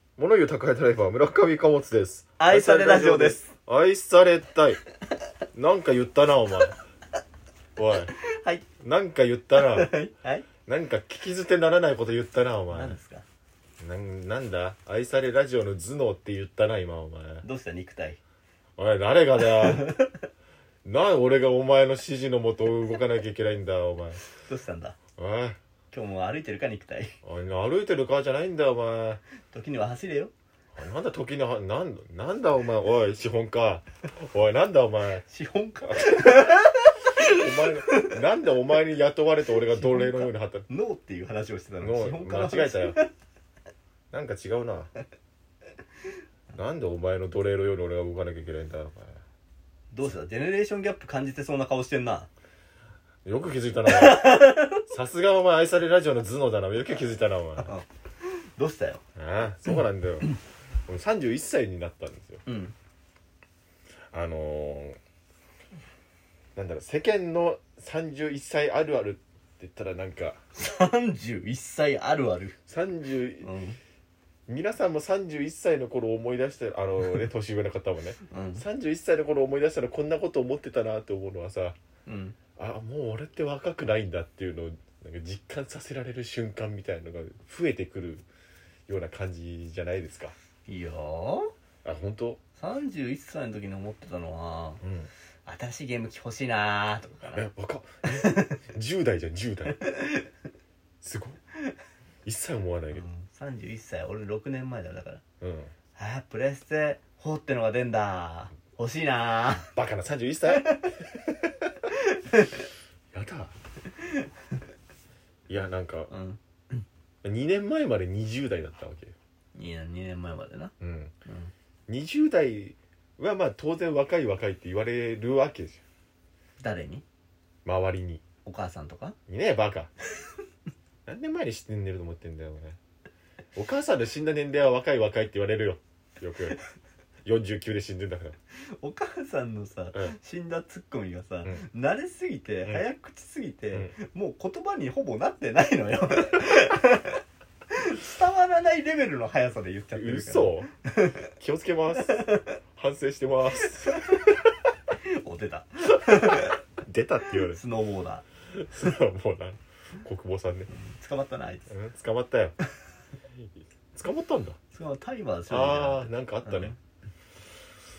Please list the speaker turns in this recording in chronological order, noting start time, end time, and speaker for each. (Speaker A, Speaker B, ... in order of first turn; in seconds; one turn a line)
Speaker A: 0.2-4.8
Speaker B: 2.4-3.5
Speaker A: 5.5-6.8
Speaker A: 7.8-8.1
Speaker B: 8.2-8.7
Speaker A: 8.8-9.9
Speaker B: 9.5-10.4
Speaker A: 10.7-12.9
Speaker B: 12.7-13.2
Speaker A: 13.8-17.4
Speaker B: 17.4-18.2
Speaker A: 18.8-20.0
Speaker B: 19.4-20.1
Speaker A: 20.8-24.2
Speaker B: 24.3-25.0
Speaker A: 25.2-25.6
Speaker B: 25.9-27.1
Speaker A: 27.2-29.2
Speaker B: 29.5-30.3
Speaker A: 30.8-35.2
Speaker B: 35.2-38.1
Speaker A: 35.9-36.6
Speaker A: 37.1-40.7
Speaker B: 39.5-43.1
Speaker A: 41.8-43.0
Speaker A: 44.1-44.9
Speaker A: 46.5-49.2
Speaker B: 49.9-52.3
Speaker A: 53.2-57.7
Speaker B: 53.9-54.8
Speaker B: 57.6-59.0
Speaker A: 59.1-60.3
Speaker A: 60.9-62.4
Speaker B: 62.5-62.7
Speaker A: 64.1-65.0
Speaker A: 66.5-70.4
Speaker B: 70.5-72.5
Speaker A: 72.7-73.5
Speaker B: 73.4-73.8
Speaker A: 74.5-81.8
Speaker B: 78.3-78.6
Speaker B: 82.0-82.4
Speaker A: 82.6-88.2
Speaker A: 88.9-90.3
Speaker B: 90.7-91.5
Speaker A: 91.8-92.4
Speaker B: 92.5-94.8
Speaker A: 94.8-95.1
Speaker B: 95.4-97.5
Speaker A: 97.3-99.8
Speaker B: 98.0-98.6
Speaker B: 99.8-100.3
Speaker A: 101.0-101.4
Speaker A: 102.2-103.0
Speaker B: 102.9-105.2
Speaker A: 105.4-105.7
Speaker B: 106.0-109.7
Speaker A: 109.7-111.7
Speaker B: 110.5-110.9
Speaker B: 111.9-112.7
Speaker A: 113.1-113.5
Speaker B: 113.9-114.2
Speaker A: 115.5-116.1
Speaker B: 116.1-116.8
Speaker A: 117.2-119.1
Speaker B: 119.5-120.7
Speaker A: 120.8-121.1
Speaker B: 121.2-121.5
Speaker A: 121.9-125.8
Speaker B: 126.6-127.0
Speaker A: 127.6-128.2
Speaker B: 128.4-129.2
Speaker A: 129.3-129.9
Speaker A: 131.1-132.8
Speaker A: 133.6-136.6
Speaker A: 137.2-138.3
Speaker B: 138.7-151.2
Speaker A: 149.9-150.7
Speaker A: 151.4-154.4
Speaker B: 152.0-152.5
Speaker B: 153.8-154.3
Speaker B: 154.9-156.6
Speaker A: 156.3-157.6
Speaker B: 157.2-158.2
Speaker A: 158.5-160.7
Speaker B: 160.7-161.7
Speaker A: 161.7-162.5
Speaker A: 163.4-164.6
Speaker B: 164.7-166.8
Speaker A: 165.5-166.7